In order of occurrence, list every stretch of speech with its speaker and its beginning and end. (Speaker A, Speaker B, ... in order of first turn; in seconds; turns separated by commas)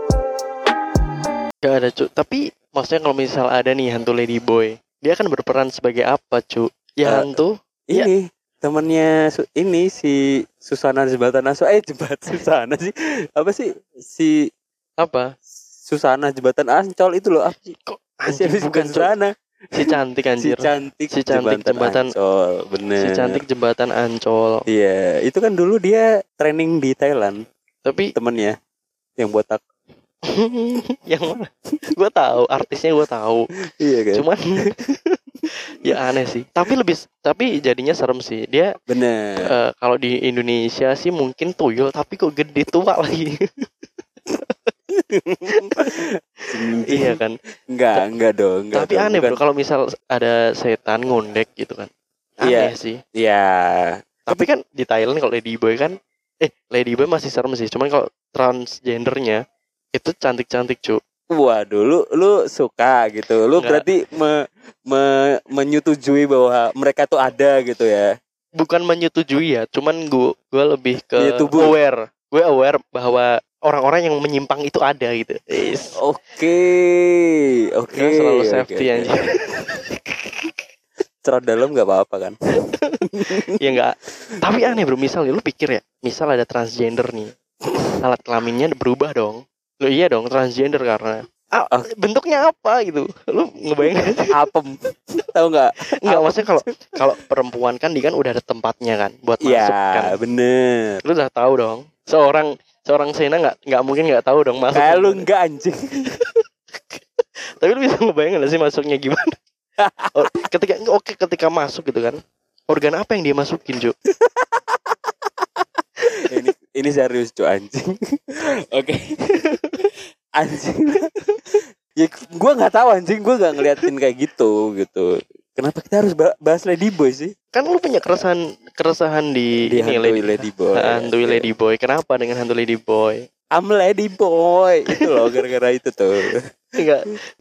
Speaker A: 1.6-8.1, Speaker B: 7.9-14.3, Speaker A: 15.0-15.3, Speaker B: 15.9-17.8, Speaker A: 17.9-19.1, Speaker B: 18.3-19.3, Speaker A: 19.7-22.1, Speaker B: 19.9-23.3, Speaker A: 23.0-24.6, Speaker B: 24.7-27.4, Speaker A: 27.8-28.1, Speaker B: 28.1-28.6, Speaker B: 29.2-29.6, Speaker A: 30.3-33.5, Speaker B: 33.7-34.7, Speaker A: 34.1-35.1, Speaker A: 35.8-38.7, Speaker B: 38.9-39.5, Speaker A: 39.4-43.6, Speaker A: 44.3-44.7, Speaker B: 44.9-47.2, Speaker A: 45.5-45.9, Speaker A: 46.9-47.4, Speaker B: 47.7-49.4, Speaker A: 48.7-51.9, Speaker A: 52.4-53.0, Speaker B: 52.4-54.5, Speaker A: 54.3-59.4, Speaker A: 59.9-61.0, Speaker B: 61.3-68.1, Speaker A: 63.6-63.8, Speaker A: 68.6-76.0, Speaker B: 71.2-71.7, Speaker B: 76.0-79.2, Speaker A: 77.9-79.8, Speaker B: 80.0-80.5, Speaker B: 81.2-82.3, Speaker A: 82.6-87.3, Speaker B: 83.2-83.5, Speaker A: 88.0-94.3, Speaker B: 94.3-96.5, Speaker A: 96.0-100.2, Speaker B: 99.4-101.0, Speaker A: 101.0-105.2, Speaker B: 104.7-106.1, Speaker A: 107.6-109.3, Speaker B: 109.8-110.2, Speaker A: 110.1-112.2, Speaker A: 112.7-113.9, Speaker B: 114.3-115.1, Speaker B: 116.2-119.1, Speaker B: 120.4-121.1, Speaker B: 122.0-127.3, Speaker A: 127.5-133.2, Speaker B: 129.7-131.5, Speaker B: 133.5-136.4, Speaker A: 136.8-137.2